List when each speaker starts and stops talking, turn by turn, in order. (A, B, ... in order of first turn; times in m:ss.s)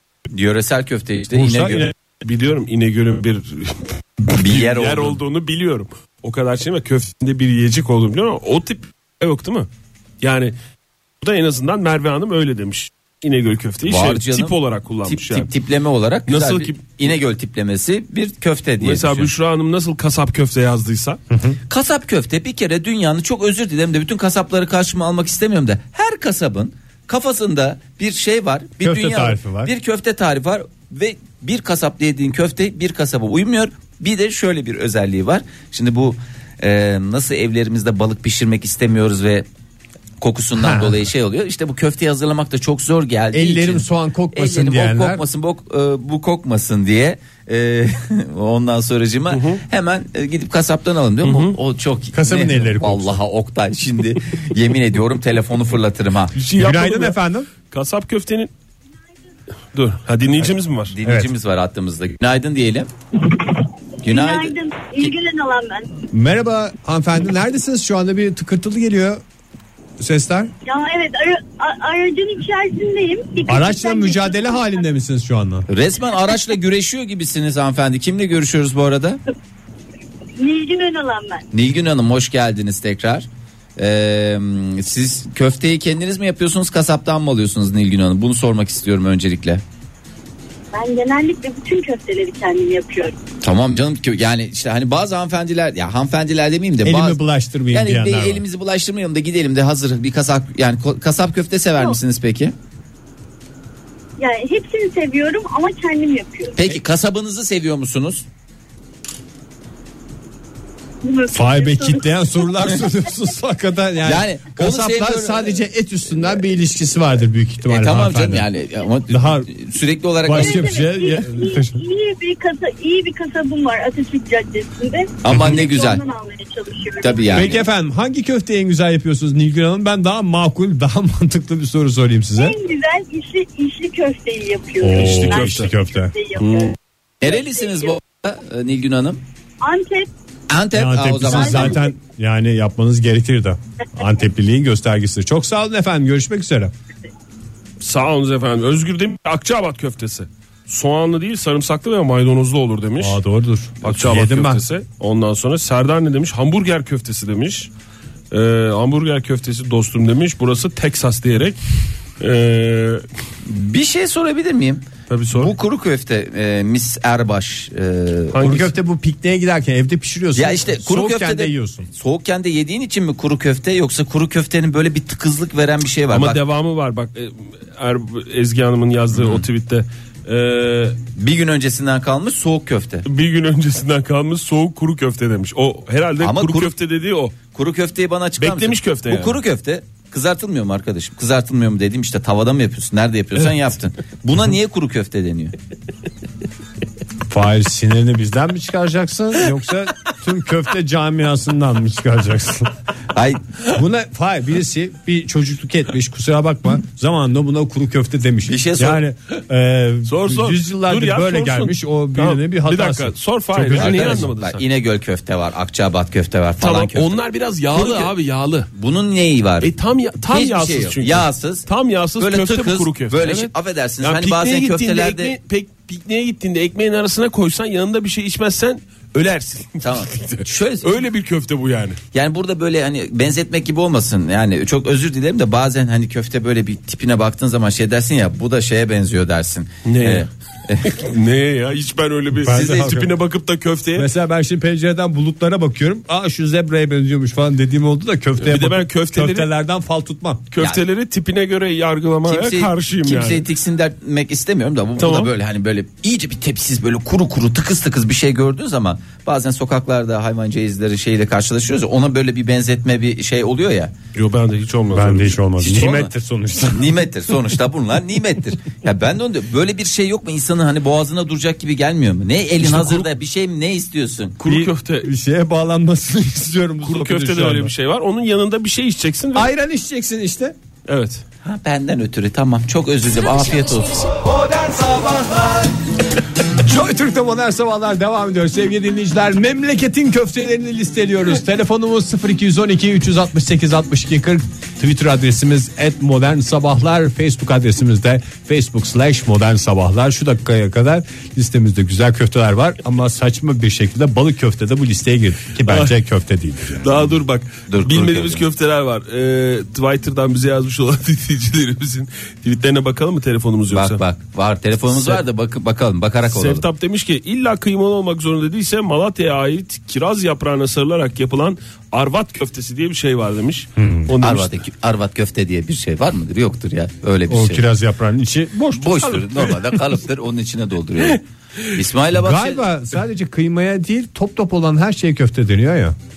0:00.3-0:01.9 A
0:01.3-0:01.9 B
0:02.2-0:09.7 C
0:04.3-0:05.2 A
0:10.2-0:10.5 C
0:11.2-0:15.5 C
0:13.8-0:19.3 A
0:16.3-0:16.8 C
0:18.8-0:21.2 C
0:21.3-0:21.6 B
0:21.7-0:39.5 A
0:28.8-0:29.7 B
0:40.2-0:56.4 A
0:40.6-0:41.1 B
0:43.3-0:45.2 B
0:49.3-0:49.6 C
0:51.2-0:51.6 C
0:52.1-0:53.2 B
0:56.4-0:57.2 C
0:56.6-0:57.5 B
0:57.7-0:58.5 C
0:59.7-1:00.9 C
1:00.9-1:02.9 A
1:01.0-1:01.3 B
1:04.0-1:05.1 A
1:04.1-1:06.0 D
1:06.1-1:09.2 B
1:10.0-1:10.5 B
1:10.7-1:14.7 D
1:13.5-1:15.7 B
1:15.7-1:19.2 A
1:20.4-1:21.4 D
1:21.5-1:29.6 A
1:30.7-1:33.2 D
1:33.4-1:37.2 A
1:36.8-1:38.4 B
1:37.7-1:42.5 A
1:44.2-1:46.6 D
1:46.6-1:48.2 A
1:51.0-1:52.1 D
1:51.3-1:58.5 B
1:54.0-1:55.6 A
1:57.6-2:00.8 A
1:59.1-1:59.5 B
2:00.2-2:01.8 B
2:00.3-2:07.5 D
2:05.2-2:06.0 A
2:07.0-2:07.6 A
2:07.3-2:12.6 B
2:12.4-2:16.7 D
2:14.8-2:16.1 B
2:15.0-2:15.7 C
2:16.4-2:16.7 C
2:17.2-2:19.2 A
2:17.2-2:17.9 D
2:19.6-2:20.1 D
2:20.5-2:21.8 A
2:20.7-2:26.7 B
2:21.3-2:21.8 D
2:27.8-2:33.2 C
2:33.0-2:34.6 B
2:33.8-2:37.7 C
2:38.3-2:41.6 C
2:42.2-2:43.0 C
2:43.4-2:48.4 A
2:45.1-2:45.5 C
2:48.3-2:48.7 C
2:48.4-2:51.9 B
2:50.4-2:56.4 A
2:56.1-3:01.0 C
2:59.1-2:59.4 A
3:01.2-3:03.1 A
3:03.1-3:07.4 C
3:06.2-3:06.7 A
3:07.5-3:15.6 A
3:08.4-3:09.4 C
3:17.3-3:22.7 B
3:23.1-3:23.6 A
3:23.7-3:34.3 B
3:28.5-3:29.0 A
3:30.1-3:34.6 C
3:33.7-3:37.2 A
3:36.6-3:38.7 C
3:37.7-3:38.1 A
3:38.7-3:39.7 A
3:39.6-3:52.0 C
3:40.2-3:41.7 A
3:42.2-3:45.4 A
3:49.8-3:51.0 A
3:52.1-4:01.0 A
3:59.8-4:00.3 C
4:00.8-4:04.1 C
4:02.4-4:03.2 B
4:04.0-4:10.4 B
4:08.4-4:09.5 C
4:10.5-4:13.5 C
4:12.3-4:23.9 A
4:15.0-4:15.3 C
4:24.2-4:26.0 C
4:24.9-4:27.1 B
4:25.6-4:26.1 A
4:26.7-4:34.4 A
4:32.6-4:33.1 C
4:34.4-4:35.1 C
4:34.5-4:37.7 B
4:36.8-4:39.5 C
4:39.3-4:40.6 B
4:40.9-4:41.2 C
4:41.4-4:44.4 A
4:44.5-4:45.2 B
4:46.5-5:07.0 B
5:05.6-5:06.0 C
5:06.8-5:14.0 C
5:07.7-5:08.4 A
5:13.7-5:16.6 A
5:14.9-5:15.2 C
5:16.3-5:24.6 C
5:23.8-5:24.1 B
5:24.2-5:27.6 A
5:27.3-5:29.6 B
5:28.7-5:32.6 A
5:32.1-5:36.0 B